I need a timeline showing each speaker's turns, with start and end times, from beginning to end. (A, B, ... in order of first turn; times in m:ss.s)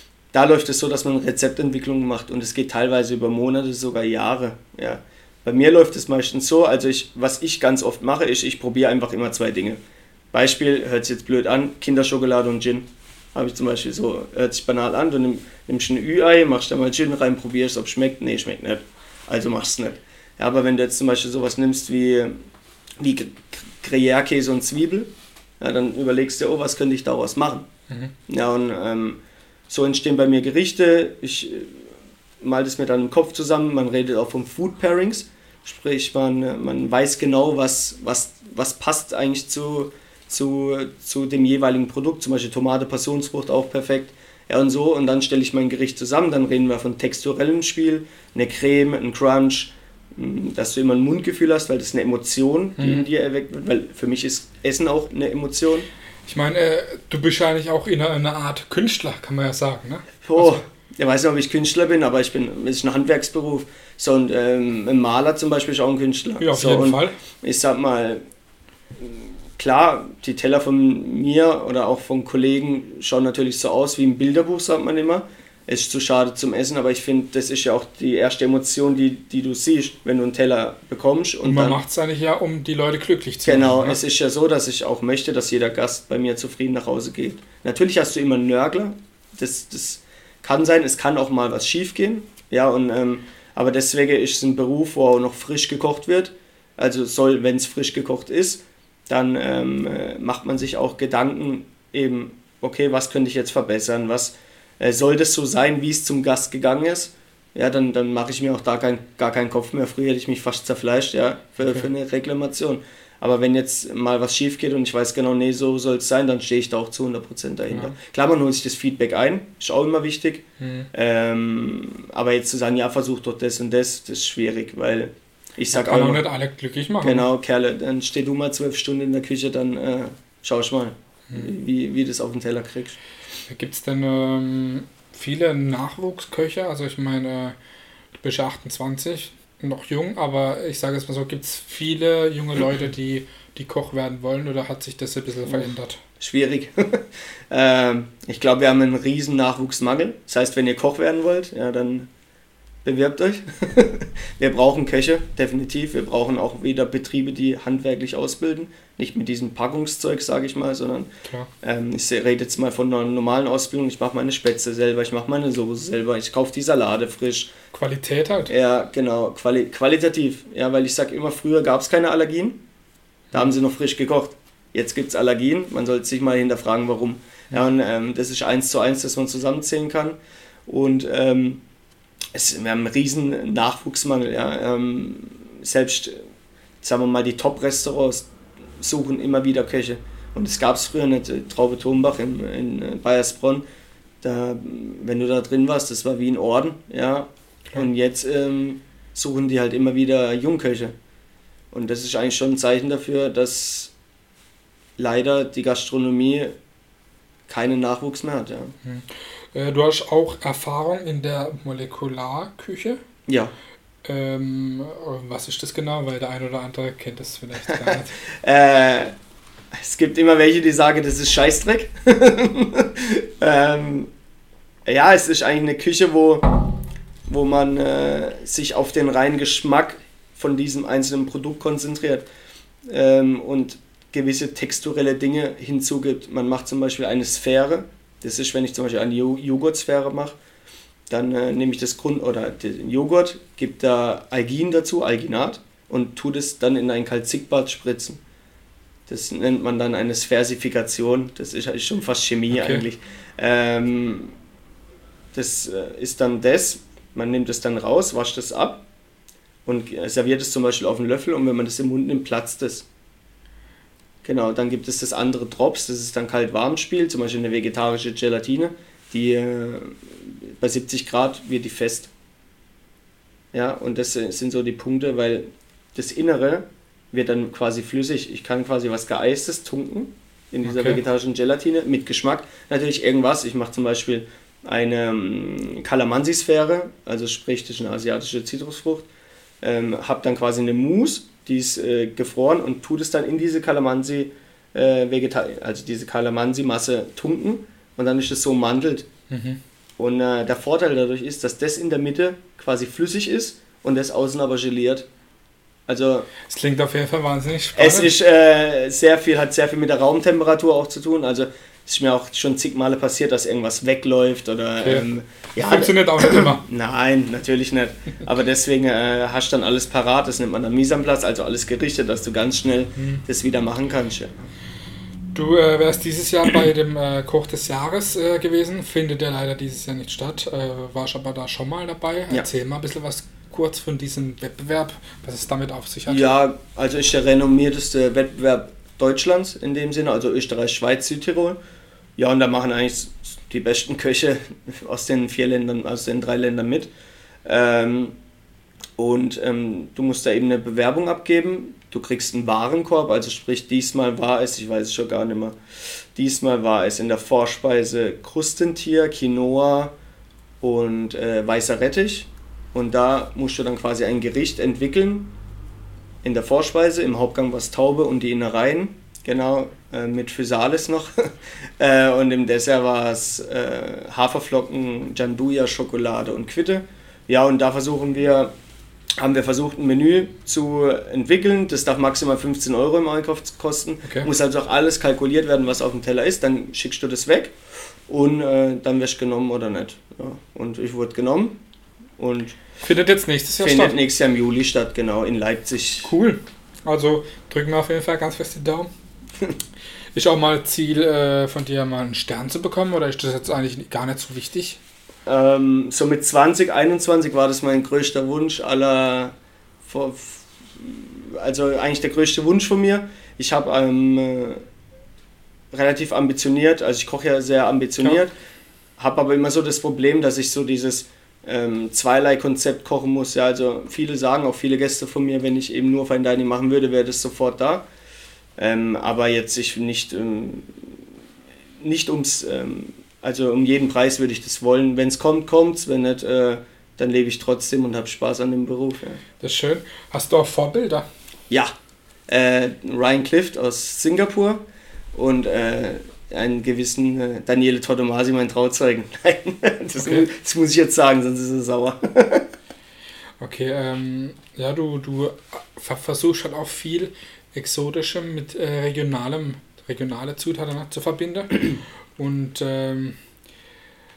0:00.3-0:09.8 A
0:10.3-0:22.4 A
0:23.0-0:27.7 A
0:28.3-0:31.8 A
0:32.4-0:55.9 A
0:52.8-0:53.0 B
0:56.2-1:00.6 B
1:00.2-1:08.2 A
1:06.4-1:07.2 B
1:09.0-1:21.8 A
1:21.4-1:24.0 B
1:23.4-2:06.2 A
1:57.7-1:58.0 B
2:00.6-2:00.9 B
2:05.7-2:07.3 B
2:07.0-2:13.0 A
2:13.5-2:17.6 B
2:18.2-2:26.0 B
2:26.2-2:32.1 A
2:32.8-2:41.1 A
2:41.6-2:47.5 A
2:47.7-2:48.5 B
2:48.5-2:52.6 A
2:53.3-3:01.6 A
3:02.3-3:06.2 A
3:06.8-3:08.3 A
3:08.8-3:13.6 A
3:14.2-3:20.9 A
3:21.7-3:23.9 A
3:25.0-3:26.5 A
3:27.5-3:28.7 A
3:28.8-3:33.0 B
3:33.3-3:33.5 A
3:34.0-3:38.1 B
3:37.7-3:39.1 A
3:39.8-3:44.1 A
3:44.8-3:46.5 A
3:47.3-3:52.2 A
3:52.9-4:00.4 A
4:01.1-4:08.2 A
4:09.1-4:14.3 A
4:12.5-4:12.8 B
4:15.3-4:18.8 A
4:19.6-4:22.8 A
4:24.2-4:32.1 A
4:33.5-4:49.1 A
4:40.6-4:41.0 B
4:49.6-4:59.1 A
4:59.3-4:59.6 B
5:00.0-5:05.1 A
5:05.9-5:06.3 A
5:06.4-5:08.1 B
5:07.8-5:24.5 A
5:14.8-5:16.6 B
5:23.0-5:23.2 B
5:25.3-5:36.3 B
5:36.1-5:41.6 A
5:42.2-5:46.9 A
5:47.4-5:48.1 A
5:49.0-5:55.6 A
5:56.1-5:59.9 A
6:00.6-6:05.3 A
6:06.2-6:18.5 A
6:19.2-6:27.5 A
6:28.1-6:31.6 A
6:32.2-6:32.6 A
6:32.8-6:34.0 B
6:33.6-6:36.1 A
6:36.0-6:38.9 B
6:40.1-6:44.8 B
6:45.2-6:54.6 A
6:55.7-6:58.3 A
6:59.0-7:07.8 A
7:08.6-7:11.0 A
7:11.8-7:19.2 A
7:19.4-7:21.1 B
7:22.3-7:24.6 A
7:25.1-7:32.5 A
7:30.0-7:30.3 B
7:33.4-7:43.2 B